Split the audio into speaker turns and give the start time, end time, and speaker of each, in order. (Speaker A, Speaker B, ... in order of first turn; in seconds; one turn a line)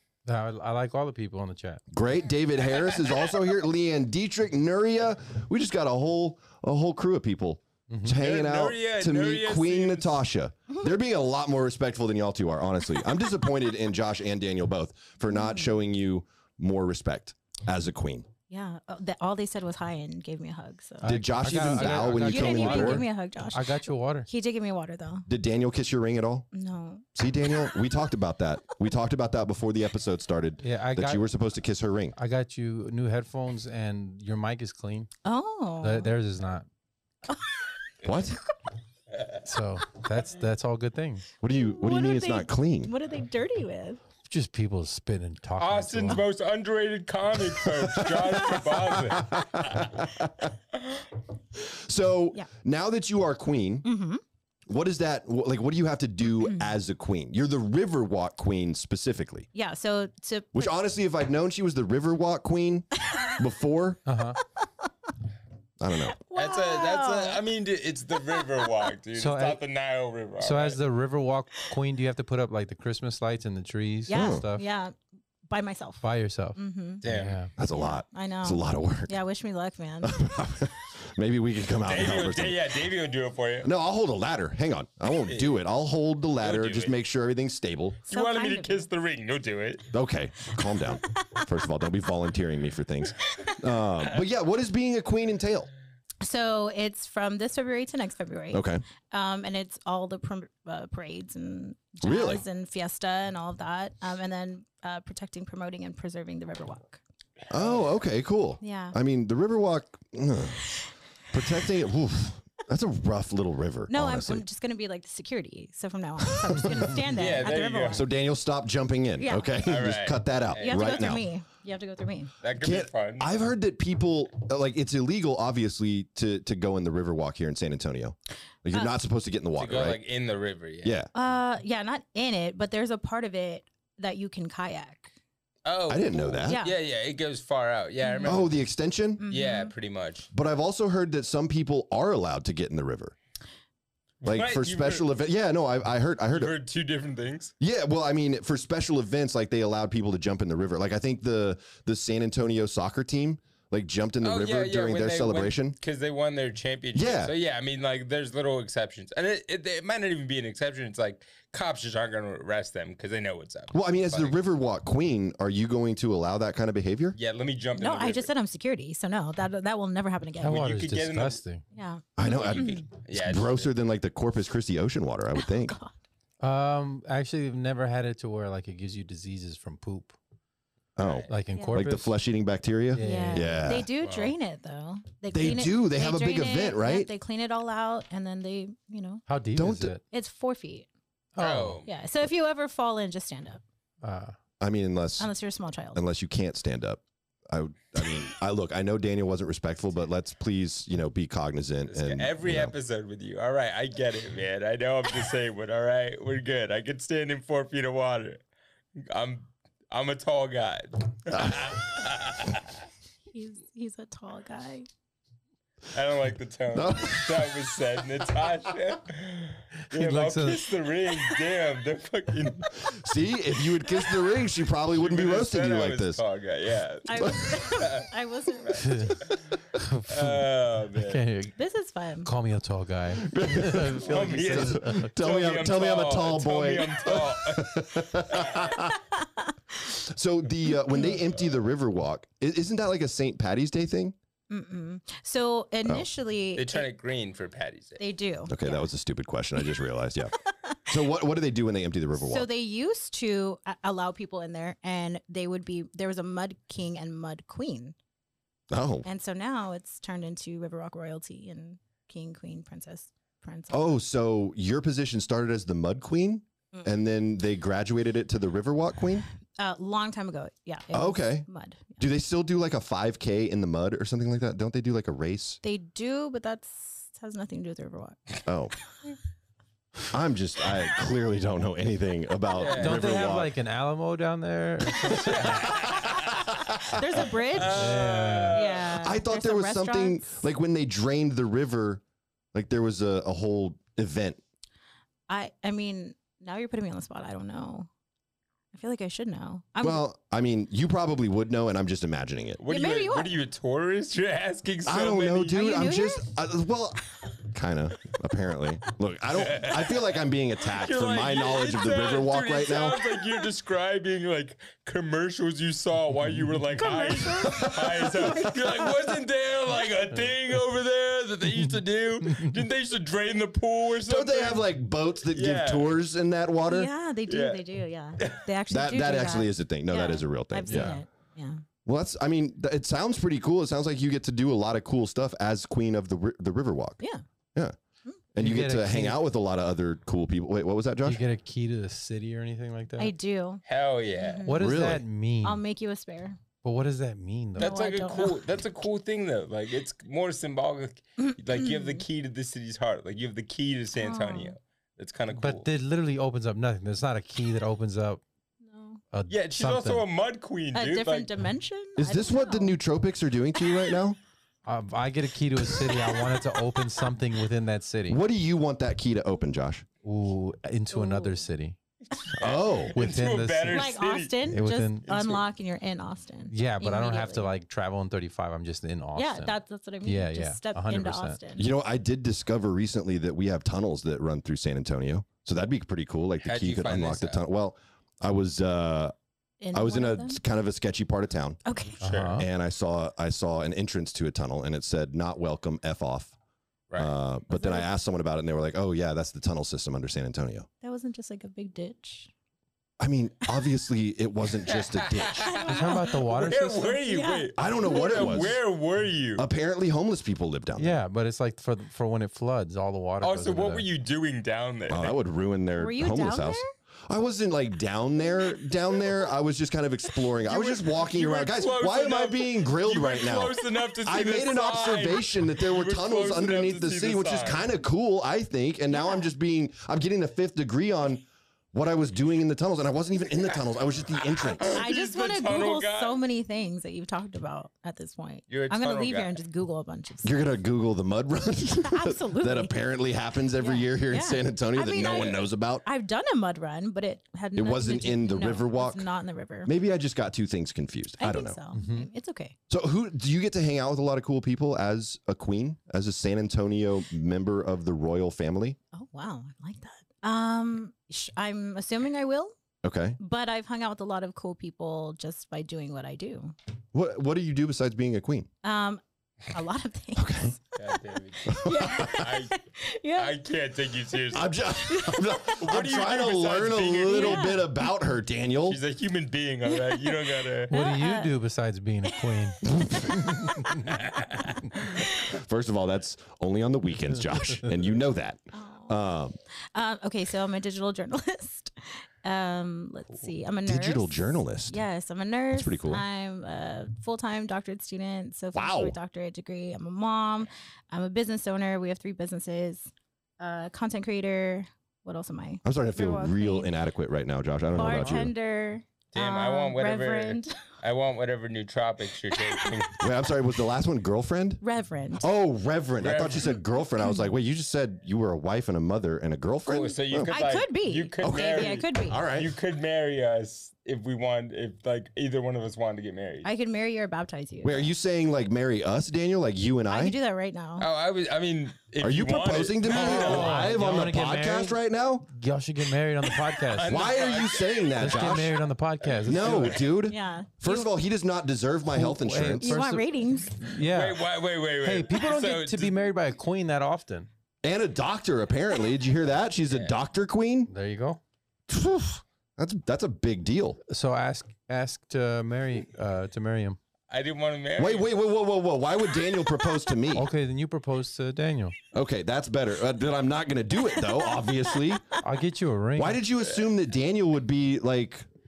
Speaker A: 0.2-1.8
Speaker B: 1.9-18.2
Speaker A: 7.9-8.2
Speaker C: 8.2-10.2
Speaker D: 15.3-15.7
Speaker D: 18.5-25.3
Speaker A: 21.0-24.3
Speaker B: 21.0-23.0
Speaker B: 25.3-26.5
Speaker D: 26.5-27.1
Speaker B: 27.1-32.1
Speaker A: 30.6-31.2
Speaker A: 32.1-35.1
Speaker D: 35.2-36.1
Speaker A: 35.8-36.7
Speaker B: 38.0-38.4
Speaker A: 39.4-41.3
Speaker B: 41.4-42.9
Speaker D: 41.6-44.0
Speaker A: 44.2-46.3
Speaker C: 45.6-49.8
Speaker B: 47.8-50.5
Speaker B: 51.7-53.9
Speaker D: 53.8-54.2
Speaker B: 54.7-59.5
Speaker D: 56.4-56.7
Speaker D: 59.5-60.8
Speaker B: 60.5-64.0
Speaker A: 64.0-64.4
Speaker B: 65.8-66.2
Speaker D: 66.3-67.4
Speaker C: 66.3-70.8
Speaker A: 69.1-69.6
Speaker A: 70.4-74.6
Speaker D: 74.1-75.0
Speaker B: 74.1-74.5
Speaker D: 75.5-77.0
Speaker A: 76.0-77.5
Speaker C: 77.0-77.4
Speaker B: 77.6-79.2
Speaker D: 77.6-80.2
Speaker B: 80.0-82.7
Speaker C: 81.9-83.7
Speaker B: 83.6-88.0
Speaker C: 85.3-85.6
Speaker C: 86.4-87.0
Speaker C: 88.1-89.9
Speaker D: 88.1-88.9
Speaker B: 89.9-95.7
Speaker D: 91.0-91.4
Speaker D: 96.2-107.0
Speaker B: 98.5-98.8
Speaker B: 102.0-102.4
Speaker B: 107.5-110.8
Speaker C: 107.5-107.8
Speaker D: 108.6-109.0
Speaker B: 111.3-114.4
Speaker D: 113.9-118.0
Speaker B: 116.5-116.8
Speaker C: 117.1-118.0
Speaker B: 117.9-121.3
Speaker D: 119.2-119.6
Speaker C: 119.6-121.2
Speaker D: 120.6-122.3
Speaker C: 122.4-123.4
Speaker B: 122.5-130.0
Speaker C: 129.6-131.0
Speaker B: 130.8-131.1
Speaker D: 131.1-135.1
Speaker C: 135.7-138.5
Speaker B: 135.9-136.6
Speaker D: 136.5-136.8
Speaker D: 138.0-138.4
Speaker B: 138.2-139.2
Speaker D: 139.2-139.7
Speaker C: 139.3-140.3
Speaker B: 140.3-143.1
Speaker C: 144.2-145.1
Speaker B: 144.2-146.5
Speaker C: 146.3-147.5
Speaker B: 147.6-155.8
Speaker C: 154.2-164.4
Speaker B: 156.9-157.3
Speaker B: 163.7-167.2
Speaker C: 167.2-168.3
Speaker D: 167.8-170.6
Speaker A: 170.4-171.6
Speaker C: 170.4-171.4
Speaker D: 171.7-172.8
Speaker B: 172.2-175.7
Speaker C: 172.2-173.7
Speaker D: 175.3-175.9
Speaker A: 176.4-180.2
Speaker B: 181.0-183.9
Speaker C: 181.0-181.3
Speaker A: 181.3-182.1
Speaker D: 181.5-181.8
Speaker A: 182.9-183.8
Speaker D: 183.0-189.2
Speaker C: 184.0-184.3
Speaker B: 185.3-187.1
Speaker A: 189.3-190.0
Speaker B: 189.6-190.0
Speaker D: 190.1-190.9
Speaker A: 191.3-191.8
Speaker C: 191.4-191.9
Speaker D: 191.8-193.6
Speaker A: 194.0-194.4
Speaker B: 194.6-195.3
Speaker D: 195.2-196.0
Speaker B: 195.9-202.7
Speaker C: 201.9-208.4
Speaker C: 209.0-212.7
Speaker B: 211.3-211.8
Speaker D: 213.3-214.9
Speaker C: 215.9-222.9
Speaker B: 216.7-217.6
Speaker A: 219.9-220.7
Speaker B: 222.8-226.2
Speaker C: 224.9-228.1
Speaker D: 227.1-229.2
Speaker B: 227.2-227.5
Speaker C: 228.6-228.9
Speaker A: 228.8-229.2
Speaker A: 229.7-230.4
Speaker C: 230.1-231.2
Speaker A: 231.0-231.6
Speaker D: 231.6-232.3
Speaker A: 232.2-235.1
Speaker B: 233.2-239.0
Speaker C: 234.0-238.8
Speaker B: 240.1-244.1
Speaker D: 240.9-241.2
Speaker D: 244.5-246.9
Speaker C: 246.6-248.0
Speaker D: 248.0-248.9
Speaker B: 248.5-250.3
Speaker D: 250.4-250.8
Speaker B: 250.9-252.5
Speaker D: 252.2-257.9
Speaker B: 258.7-259.1
Speaker D: 259.0-264.0
Speaker B: 263.7-269.2
Speaker D: 269.6-272.0
Speaker B: 270.9-271.4
Speaker B: 272.0-275.6
Speaker D: 275.6-278.4
Speaker B: 278.4-278.7
Speaker B: 280.1-283.5
Speaker C: 282.6-283.1
Speaker A: 282.8-285.8
Speaker C: 285.2-286.4
Speaker B: 285.9-287.0
Speaker D: 286.9-290.4
Speaker C: 287.5-289.0
Speaker A: 287.6-288.6
Speaker B: 289.0-292.0
Speaker B: 292.5-294.4
Speaker D: 295.3-297.9
Speaker D: 298.7-300.0
Speaker B: 299.8-302.6
Speaker C: 302.6-305.6
Speaker D: 302.6-303.3
Speaker B: 304.9-313.0
Speaker D: 305.5-306.3
Speaker C: 309.3-310.1
Speaker C: 310.7-324.6
Speaker D: 316.8-319.1
Speaker B: 317.6-318.0
Speaker B: 324.1-326.9
Speaker C: 325.3-326.0
Speaker D: 326.6-331.6
Speaker C: 327.3-327.6
Speaker B: 328.7-331.0
Speaker A: 330.6-331.0
Speaker B: 331.8-337.0
Speaker B: 338.3-341.2
Speaker A: 338.4-339.2
Speaker A: 341.0-343.1
Speaker D: 343.0-343.6
Speaker C: 343.6-344.5
Speaker D: 344.2-344.7
Speaker A: 344.4-345.6
Speaker B: 344.6-345.0
Speaker D: 345.4-346.4
Speaker A: 346.6-347.8
Speaker D: 347.6-348.4
Speaker C: 347.6-355.7
Speaker D: 351.2-352.0
Speaker D: 353.9-354.5
Speaker A: 355.3-358.2
Speaker D: 358.6-359.0
Speaker A: 359.1-360.1
Speaker C: 359.3-361.3
Speaker D: 360.7-362.7
Speaker B: 362.0-364.2
Speaker A: 364.6-368.2
Speaker B: 368.1-369.8
Speaker A: 370.0-371.8
Speaker D: 370.9-371.4
Speaker B: 372.4-372.9
Speaker C: 372.4-375.4
Speaker A: 372.9-375.1
Speaker D: 373.7-377.5
Speaker A: 376.5-381.4
Speaker D: 379.1-381.7
Speaker B: 381.6-389.1
Speaker C: 386.4-387.4
Speaker D: 389.6-390.4
Speaker B: 389.7-391.6
Speaker D: 391.6-392.0
Speaker C: 392.0-392.4
Speaker A: 392.0-392.5
Speaker B: 392.4-396.3
Speaker B: 397.0-400.7
Speaker D: 397.5-397.9
Speaker D: 400.8-402.3
Speaker B: 403.0-405.5
Speaker C: 404.7-409.4
Speaker D: 405.4-408.4
Speaker A: 405.7-407.0
Speaker B: 407.6-408.6
Speaker B: 409.4-411.0
Speaker A: 410.8-413.9
Speaker C: 413.2-415.1
Speaker B: 414.9-434.8
Speaker D: 415.8-416.7
Speaker C: 420.4-427.6
Speaker D: 428.9-429.3
Speaker D: 434.4-440.4
Speaker C: 434.6-436.2
Speaker C: 438.5-439.4
Speaker B: 440.2-445.8
Speaker D: 441.8-442.7
Speaker D: 443.6-449.7
Speaker C: 445.0-445.4
Speaker B: 447.6-449.1
Speaker B: 449.6-451.6
Speaker D: 451.2-452.6
Speaker A: 451.7-452.1
Speaker B: 452.7-458.8
Speaker D: 458.9-462.5
Speaker B: 462.8-463.2
Speaker D: 463.2-466.5
Speaker B: 466.9-468.5
Speaker D: 468.6-470.6
Speaker B: 470.1-470.5
Speaker C: 470.8-472.6
Speaker D: 471.4-473.4
Speaker B: 471.5-472.2
Speaker C: 473.1-474.5
Speaker B: 474.3-478.8
Speaker D: 474.9-475.4
Speaker C: 475.4-477.6
Speaker D: 477.1-477.8
Speaker C: 478.7-480.7
Speaker D: 479.7-481.3
Speaker A: 480.7-483.9
Speaker D: 482.2-483.7
Speaker C: 483.9-484.6
Speaker B: 485.3-489.3
Speaker D: 488.5-488.9
Speaker D: 489.7-506.7
Speaker B: 493.6-494.8
Speaker B: 495.5-496.0
Speaker B: 498.5-499.0
Speaker B: 505.6-508.3
Speaker D: 507.8-510.6
Speaker A: 507.9-508.3
Speaker C: 509.1-513.0
Speaker B: 513.0-514.6
Speaker D: 514.6-515.2
Speaker B: 515.2-520.4
Speaker C: 516.0-516.6
Speaker D: 517.0-517.3
Speaker C: 519.6-526.5
Speaker D: 520.3-522.2
Speaker B: 521.2-522.5
Speaker D: 526.4-527.9
Speaker B: 527.6-530.1
Speaker D: 529.9-530.9
Speaker C: 530.8-533.8
Speaker B: 532.0-535.2
Speaker A: 532.9-537.2
Speaker C: 536.6-539.8
Speaker B: 536.9-538.5
Speaker A: 538.0-539.9
Speaker B: 539.2-542.8
Speaker D: 540.0-540.9
Speaker A: 541.9-544.2
Speaker D: 542.6-543.5
Speaker C: 543.8-545.9
Speaker A: 544.8-547.3
Speaker B: 547.6-550.7
Speaker C: 549.7-549.9
Speaker A: 550.7-551.2
Speaker B: 551.7-553.8
Speaker A: 553.9-556.8
Speaker C: 557.1-558.1
Speaker B: 557.8-560.3
Speaker A: 560.1-561.7
Speaker B: 561.9-565.1
Speaker A: 565.2-566.2
Speaker B: 566.0-568.2